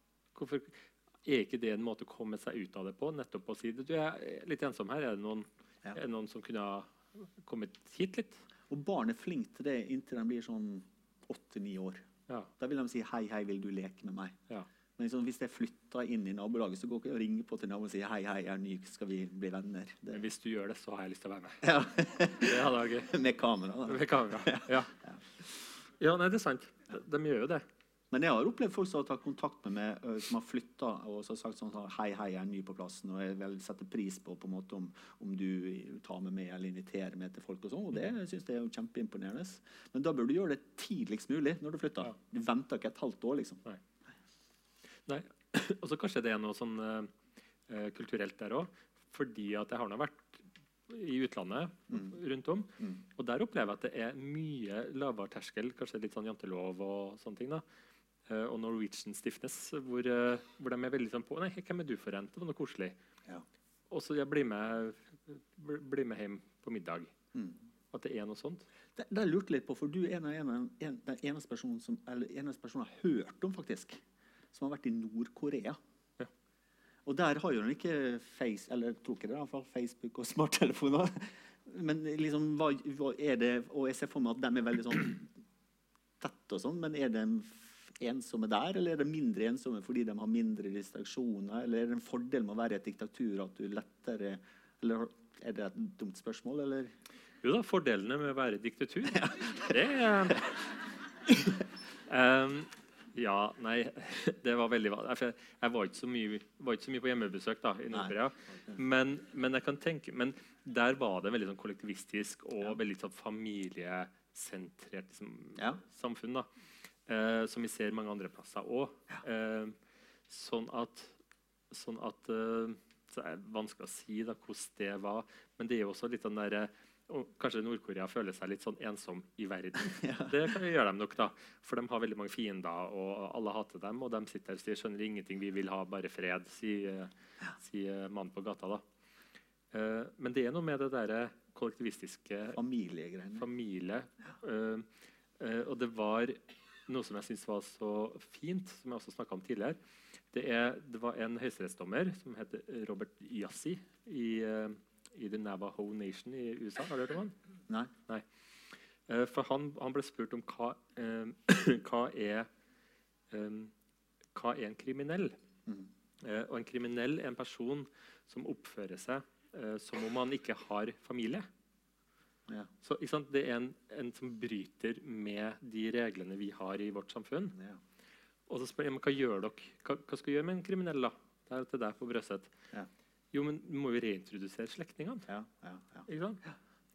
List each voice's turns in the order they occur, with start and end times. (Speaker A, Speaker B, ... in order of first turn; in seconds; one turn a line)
Speaker A: 0.3-8.4
Speaker B: 8.7-12.1
Speaker B: 12.6-14.4
Speaker B: 15.0-20.2
Speaker A: 20.1-21.6
Speaker B: 21.6-25.2
Speaker A: 22.4-23.1
Speaker A: 23.9-24.9
Speaker A: 26.0-27.6
Speaker B: 28.1-43.6
Speaker A: 45.1-47.1
Speaker A: 47.7-57.6
Speaker A: 58.3-63.0
Speaker A: 63.9-67.1
Speaker A: 67.9-68.7
Speaker B: 69.0-75.8
Speaker B: 77.0-85.3
Speaker B: 86.2-97.0
Speaker A: 97.4-100.5
Speaker B: 99.1-99.7
Speaker A: 102.1-116.5
Speaker A: 117.1-119.8
Speaker A: 120.3-121.2
Speaker A: 121.7-138.8
Speaker B: 129.8-130.5
Speaker A: 139.7-142.6
Speaker B: 142.5-143.5
Speaker A: 143.4-144.9
Speaker A: 145.4-149.8
Speaker A: 150.3-157.3
Speaker A: 159.1-162.5
Speaker A: 163.3-163.7
Speaker A: 164.3-165.3
Speaker A: 166.2-171.5
Speaker A: 172.8-177.6
Speaker A: 178.5-182.5
Speaker A: 183.3-185.3
Speaker B: 185.3-186.1
Speaker A: 186.1-186.4